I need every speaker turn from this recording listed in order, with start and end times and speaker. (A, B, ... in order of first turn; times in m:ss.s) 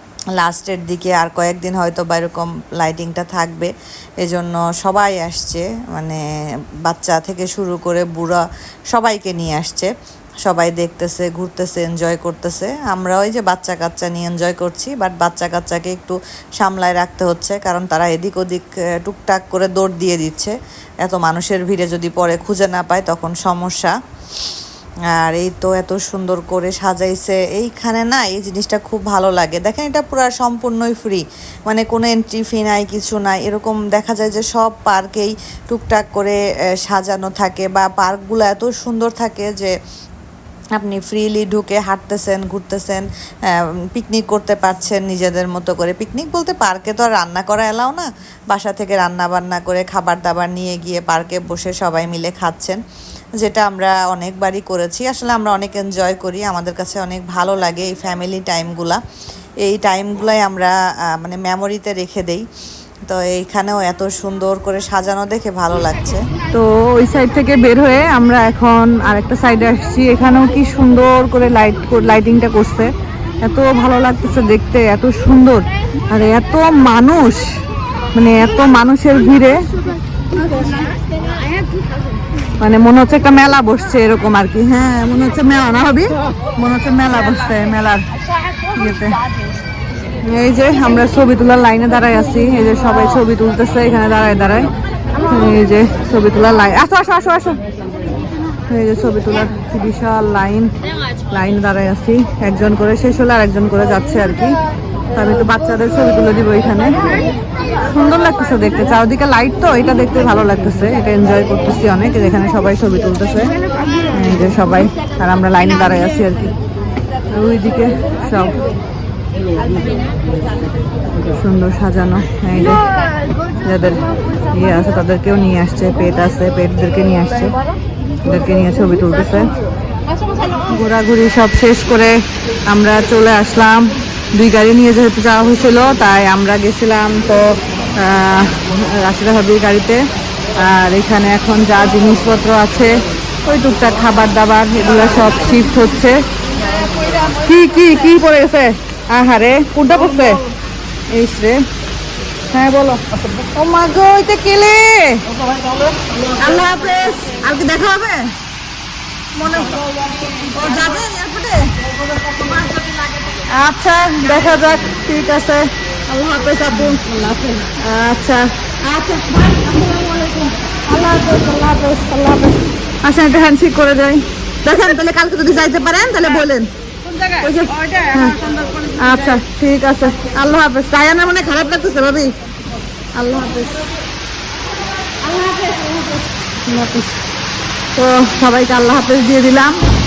0:00.4-0:06.2 A
0:06.8-0:09.9 A
0:10.4-0:23.9 A
0:25.1-0:39.7 A
0:40.8-0:52.8 A
0:53.4-0:59.0 A
0:59.6-1:02.4 A
1:03.1-1:06.2 A
1:06.5-1:12.9 B
1:13.4-1:17.4 B
1:18.1-1:19.6 B
1:22.6-1:28.0 B
1:28.7-1:29.2 B
1:30.2-1:34.7 B
1:35.2-1:37.6 B
1:38.7-1:40.7 B
1:41.3-1:44.6 B
1:45.1-1:47.2 B
1:47.8-1:53.5 B
1:54.1-1:56.5 B
1:57.3-1:58.6 B
2:01.3-2:02.8 B
2:03.6-2:04.0 B
2:04.5-2:07.5 B
2:08.2-2:09.5 B
2:10.1-2:10.7 C
2:10.7-2:12.2 B
2:12.7-2:17.4 B
2:18.0-2:20.0 B
2:20.6-2:26.2 B
2:26.5-2:27.4 C
2:27.4-2:30.4 B
2:31.1-2:31.6 B
2:32.5-2:33.0 B
2:33.5-2:35.2 B
2:36.3-2:38.3 B
2:39.4-2:39.8 B
2:39.8-2:41.0 C
2:40.5-2:41.7 B
2:42.1-2:43.3 C
2:43.5-2:49.8 B
2:50.0-2:50.2 C
2:50.8-2:56.7 B
2:57.0-2:59.4 C
2:57.4-2:58.3 B
2:59.0-3:02.3 B
3:03.2-3:03.8 B
3:05.2-3:06.2 C
3:06.6-3:07.1 B
3:08.0-3:09.8 B